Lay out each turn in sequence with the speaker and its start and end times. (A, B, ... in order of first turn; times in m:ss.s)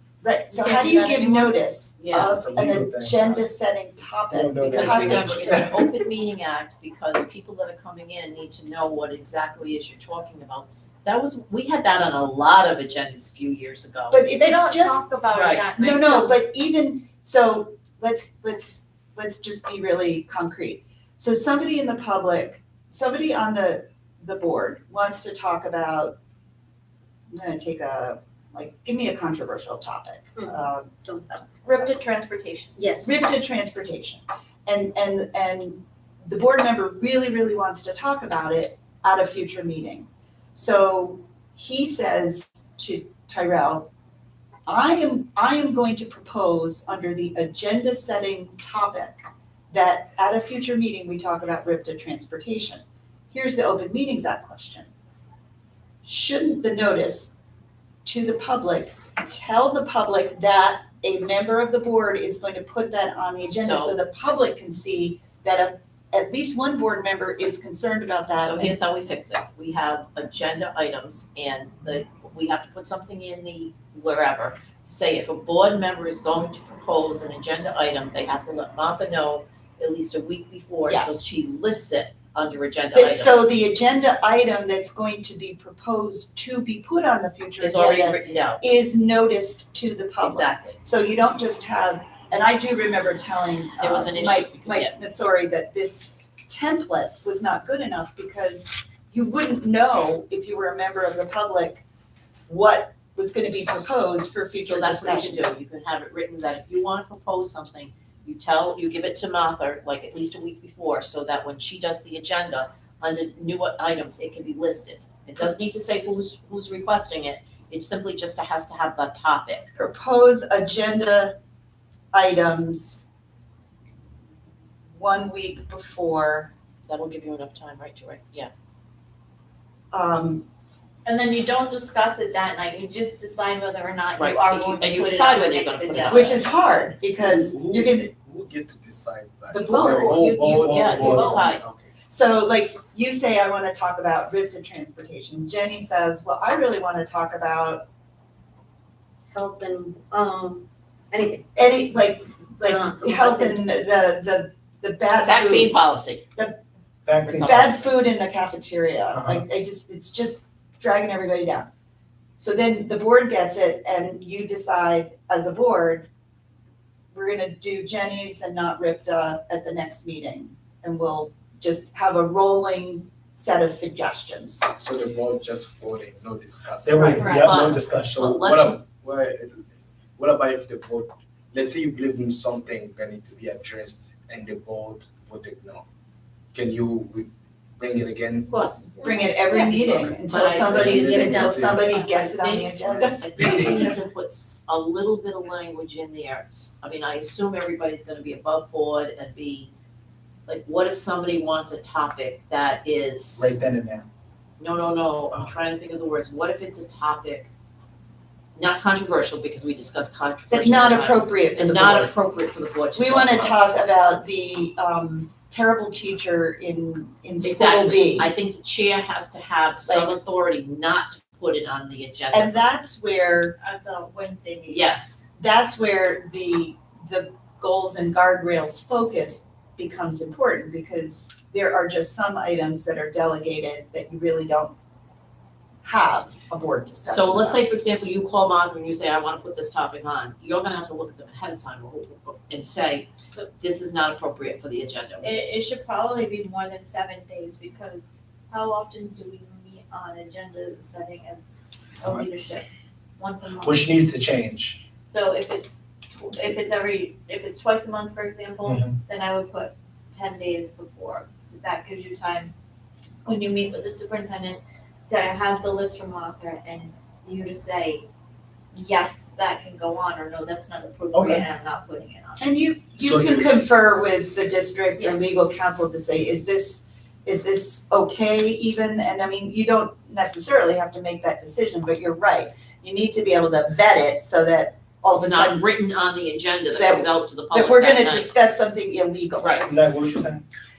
0:00.2-0:05.8 A
0:00.5-0:01.6 B
0:02.0-0:02.3 C
0:02.1-0:03.4 D
0:04.3-0:05.9 D
0:04.6-0:14.2 C
0:14.1-0:15.0 A
0:14.3-0:16.4 B
0:15.3-0:15.7 C
0:15.7-0:26.2 A
0:27.3-0:31.8 A
0:30.4-0:31.3 E
0:31.6-0:32.8 B
0:32.8-0:33.2 E
0:33.0-0:43.9 A
0:44.7-0:54.9 A
0:56.0-0:57.4 A
0:58.0-1:08.8 A
1:03.4-1:04.0 C
1:08.4-1:23.5 C
1:20.9-1:21.3 A
1:22.9-1:41.8 A
1:27.6-1:28.6 C
1:30.2-1:30.8 C
1:33.8-1:34.9 C
1:42.5-1:45.5 A
1:43.6-1:44.0 C
1:44.5-1:59.7 C
1:59.8-2:01.4 A
2:02.1-2:03.1 A
2:04.9-2:06.5 A
2:06.9-2:08.5 C
2:09.9-2:10.4 A
2:11.0-2:16.3 B
2:14.2-2:16.4 C
2:16.0-2:18.1 A
2:17.4-2:21.9 F
2:19.5-2:20.3 A
2:19.8-2:21.5 B
2:20.5-2:21.6 C
2:22.1-2:27.8 A
2:29.3-2:31.4 E
2:31.5-2:35.8 A
2:32.6-2:33.6 E
2:35.2-2:36.2 C
2:37.0-2:37.7 D
2:37.3-2:41.7 A
2:39.1-2:39.4 D
2:42.4-2:46.1 A
2:47.1-2:54.7 A
2:54.8-2:57.3 F
2:56.8-2:58.5 D
2:56.9-2:58.8 C
2:57.2-2:57.5 B
2:58.2-2:59.6 F
3:00.2-3:05.8 F
3:06.5-3:08.5 F
3:08.5-3:09.0 C
3:09.0-3:13.9 A
3:09.4-3:09.9 B
3:10.0-3:19.7 C
3:10.7-3:11.6 F
3:11.3-3:12.0 B
3:20.5-3:23.5 C
3:23.4-3:24.0 D
3:24.6-3:27.5 C
3:28.5-3:33.8 C
3:30.5-3:32.1 A
3:32.9-3:38.3 A
3:37.4-3:42.6 C
3:39.9-3:40.2 A
3:42.3-3:43.6 A
3:43.6-3:45.0 B
3:44.7-3:45.2 C
3:45.4-3:54.7 A
3:55.8-3:57.6 A
3:57.0-4:05.3 C
4:05.2-4:14.0 B
4:12.0-4:12.5 D
4:13.6-4:14.8 D
4:15.0-4:22.5 B
4:18.6-4:19.0 D
4:23.2-4:28.0 B
4:28.7-4:32.4 B
4:31.1-4:31.4 D
4:32.4-4:45.7 A
4:33.0-4:33.4 F
4:45.1-4:48.3 C
4:46.7-4:49.7 A
4:49.4-4:49.7 C
4:49.7-4:50.4 D